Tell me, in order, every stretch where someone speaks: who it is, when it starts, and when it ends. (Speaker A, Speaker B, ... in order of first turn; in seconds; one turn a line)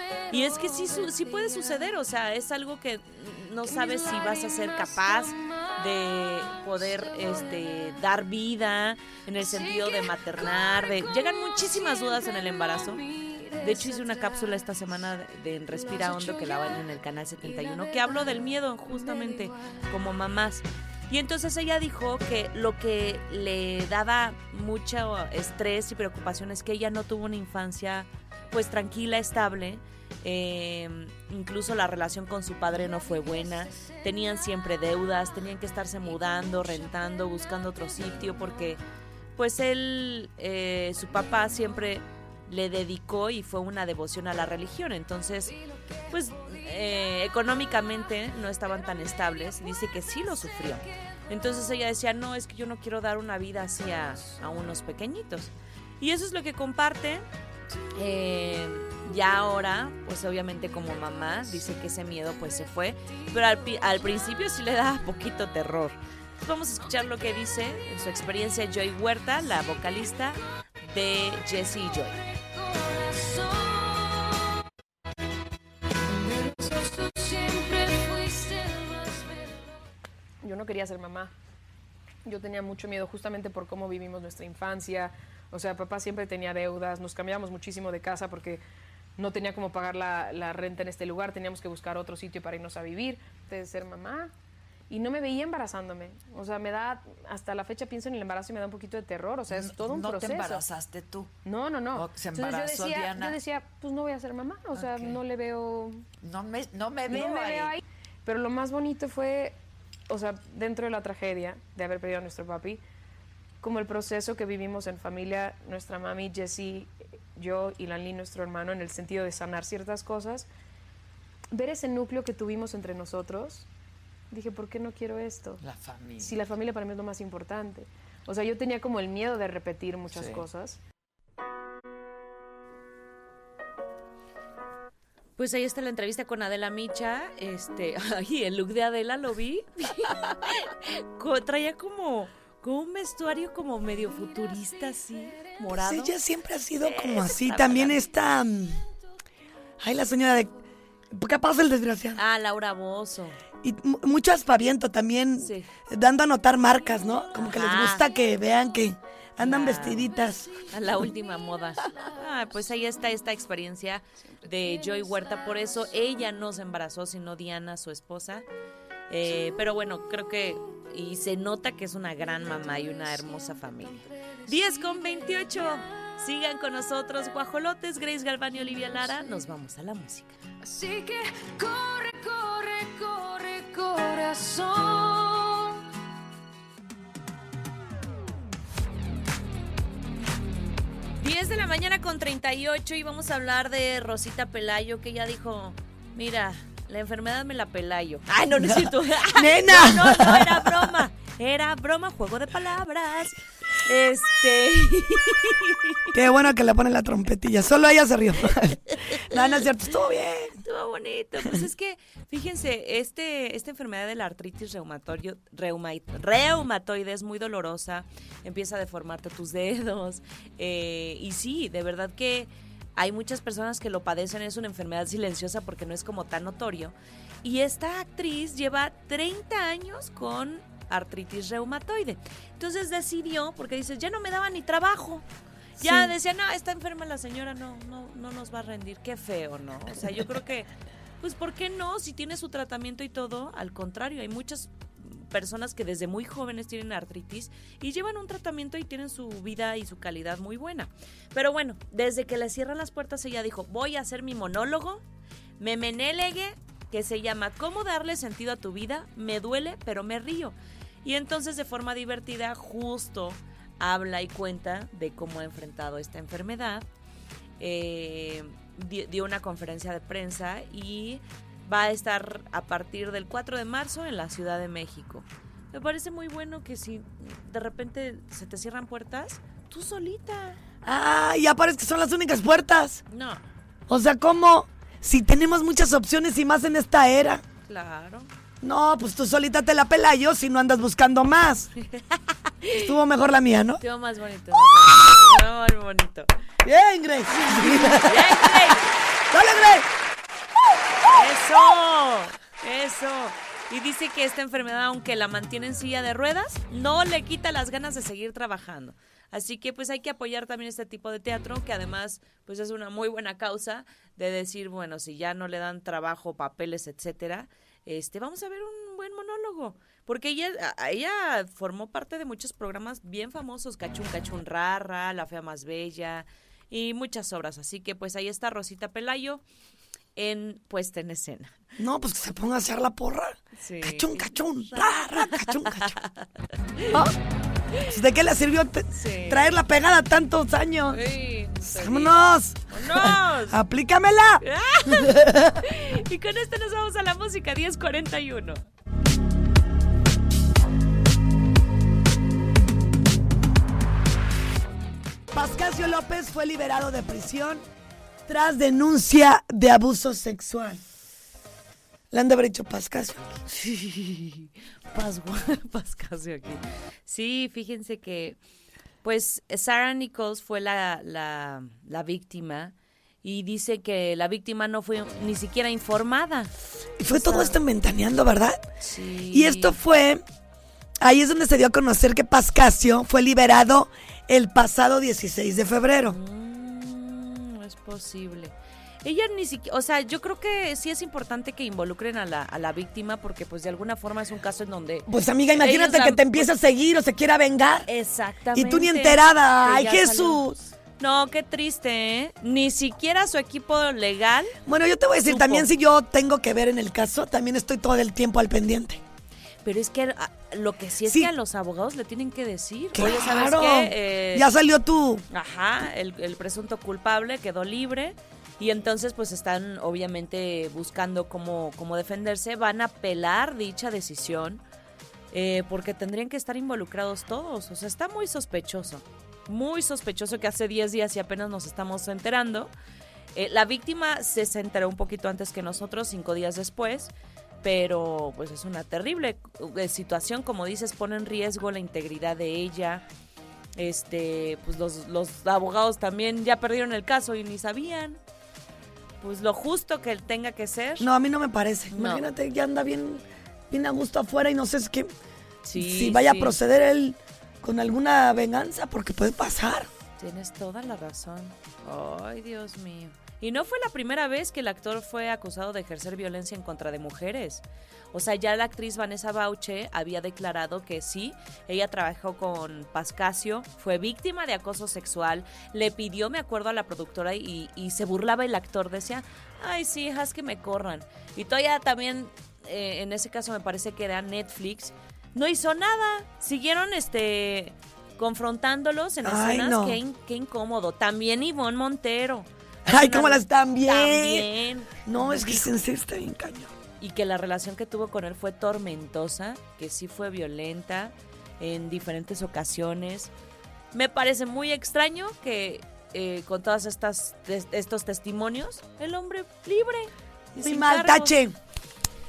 Speaker A: 0.3-38.8
Speaker A: 39.4-45.6
Speaker A: 46.1-57.2
Speaker A: 57.9-72.2
Speaker B: 72.6-74.3
Speaker B: 76.3-79.4
Speaker C: 80.4-81.3
Speaker C: 82.2-88.6
Speaker C: 89.2-94.3
Speaker C: 94.9-100.7
Speaker D: 99.5-101.3
Speaker C: 101.4-106.0
Speaker D: 101.9-103.4
Speaker D: 104.7-105.2
Speaker D: 106.2-107.8
Speaker C: 107.0-109.6
Speaker C: 110.1-112.8
Speaker C: 113.6-120.5
Speaker C: 121.5-123.7
Speaker C: 124.3-125.6
Speaker D: 125.6-126.4
Speaker C: 126.2-130.8
Speaker D: 130.1-130.5
Speaker A: 135.4-146.1
Speaker E: 145.7-148.8
Speaker A: 146.8-148.0
Speaker E: 149.8-150.5
Speaker E: 151.1-152.2
Speaker A: 152.2-153.4
Speaker E: 153.6-160.7
Speaker A: 155.4-155.7
Speaker A: 157.4-158.1
Speaker A: 159.4-160.1
Speaker A: 160.7-168.4
Speaker A: 169.1-180.4
Speaker B: 180.6-185.7
Speaker A: 191.2-206.2
Speaker E: 198.5-200.9
Speaker E: 206.1-210.6
Speaker A: 210.6-235.2
Speaker A: 235.8-240.7
Speaker E: 235.8-236.1
Speaker A: 241.2-255.0
Speaker A: 255.6-266.9
Speaker A: 267.6-280.6
Speaker E: 280.8-283.0
Speaker A: 283.1-283.4
Speaker E: 283.9-287.4
Speaker A: 287.6-288.3
Speaker E: 288.6-291.7
Speaker A: 291.9-292.9
Speaker E: 292.8-293.8
Speaker A: 293.8-296.3
Speaker E: 296.6-299.9
Speaker A: 297.4-298.8
Speaker A: 301.1-329.4
Speaker A: 330.2-331.6
Speaker E: 331.8-335.9
Speaker A: 333.6-336.3
Speaker E: 336.9-337.1
Speaker E: 337.8-341.0
Speaker A: 338.9-339.5
Speaker A: 340.9-343.6
Speaker E: 341.6-345.6
Speaker A: 344.4-348.6
Speaker E: 355.3-357.6
Speaker E: 358.3-360.8
Speaker E: 362.1-363.3
Speaker A: 363.5-368.4
Speaker A: 369.0-376.5
Speaker E: 377.0-378.6
Speaker A: 377.1-377.6
Speaker A: 378.8-379.8
Speaker E: 379.3-380.2
Speaker E: 381.0-386.2
Speaker A: 386.1-388.5
Speaker A: 389.0-396.5
Speaker E: 395.1-397.9
Speaker A: 397.9-400.4
Speaker E: 398.5-400.7
Speaker A: 401.0-404.5
Speaker E: 404.6-409.0
Speaker A: 405.2-405.7
Speaker A: 409.6-414.5
Speaker E: 411.0-411.3
Speaker E: 412.9-415.2
Speaker A: 415.3-424.6
Speaker A: 425.3-432.7
Speaker A: 433.3-437.1
Speaker A: 437.6-443.1
Speaker A: 443.8-448.2
Speaker A: 449.2-451.1
Speaker E: 451.0-455.1
Speaker A: 451.9-452.3
Speaker A: 455.6-456.6
Speaker E: 455.7-459.9
Speaker A: 460.2-495.7
Speaker E: 489.2-490.0
Speaker E: 492.9-494.5
Speaker E: 495.0-496.7
Speaker A: 497.0-503.3
Speaker A: 503.9-511.3
Speaker E: 510.6-511.5